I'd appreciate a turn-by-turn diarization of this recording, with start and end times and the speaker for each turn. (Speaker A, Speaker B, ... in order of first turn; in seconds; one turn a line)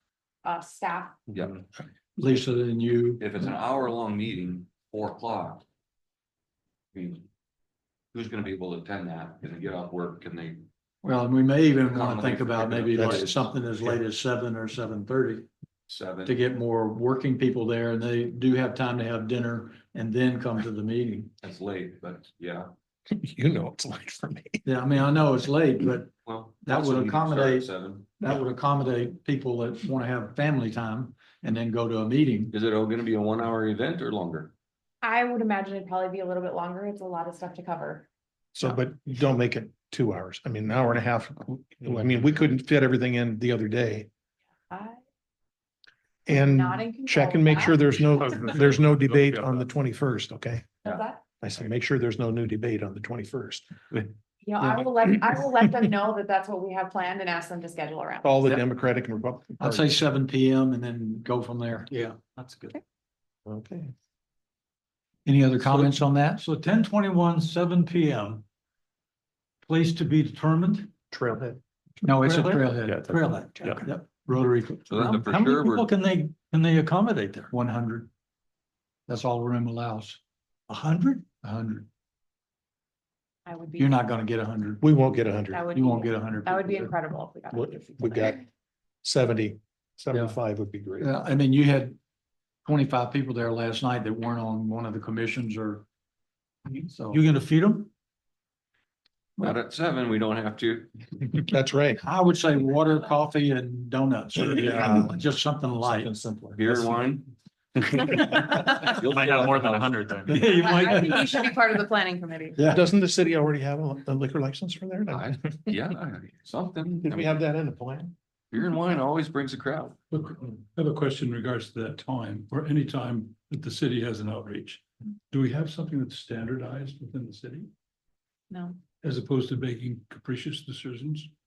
Speaker A: 0.4-1.2
Speaker B: 1.3-1.6
Speaker C: 2.2-3.3
Speaker B: 3.2-5.7
Speaker B: 6.9-7.2
Speaker B: 8.1-10.7
Speaker C: 11.0-15.5
Speaker B: 11.9-13.5
Speaker B: 15.9-16.4
Speaker C: 16.2-21.3
Speaker B: 21.4-22.7
Speaker D: 23.1-24.6
Speaker C: 24.6-26.1
Speaker B: 26.2-28.2
Speaker C: 26.6-32.5
Speaker B: 32.5-34.5
Speaker A: 35.0-38.1
Speaker D: 38.5-44.1
Speaker A: 44.7-45.0
Speaker D: 46.3-53.7
Speaker A: 46.3-48.2
Speaker E: 48.2-49.6
Speaker A: 50.8-51.2
Speaker A: 54.4-58.6
Speaker D: 58.2-59.9
Speaker C: 59.6-62.5
Speaker D: 63.5-63.9
Speaker C: 65.2-66.4
Speaker E: 66.4-68.4
Speaker E: 69.7-70.8
Speaker D: 71.1-71.6
Speaker C: 72.0-77.0
Speaker D: 72.2-72.5
Speaker E: 72.2-73.8
Speaker B: 74.9-75.9
Speaker C: 77.5-78.1
Speaker C: 79.1-80.2
Speaker C: 80.7-81.9
Speaker A: 83.5-84.0
Speaker C: 83.8-84.9
Speaker D: 84.8-85.7
Speaker A: 85.5-88.4
Speaker C: 85.7-86.9
Speaker D: 87.5-88.4
Speaker D: 89.0-91.1
Speaker C: 90.1-90.4
Speaker C: 91.0-92.0
Speaker C: 92.6-95.8
Speaker C: 96.7-97.2
Speaker E: 97.1-97.9
Speaker B: 99.4-101.1
Speaker D: 101.4-102.0
Speaker C: 102.0-106.1
Speaker D: 104.5-105.2
Speaker D: 105.8-106.9
Speaker B: 106.5-110.5
Speaker E: 109.0-110.5
Speaker C: 110.3-111.3
Speaker A: 110.4-112.6
Speaker D: 112.6-115.8
Speaker B: 115.1-117.3
Speaker D: 117.0-118.1
Speaker B: 118.5-120.0
Speaker F: 120.1-127.7
Speaker A: 128.5-128.8
Speaker F: 129.0-131.3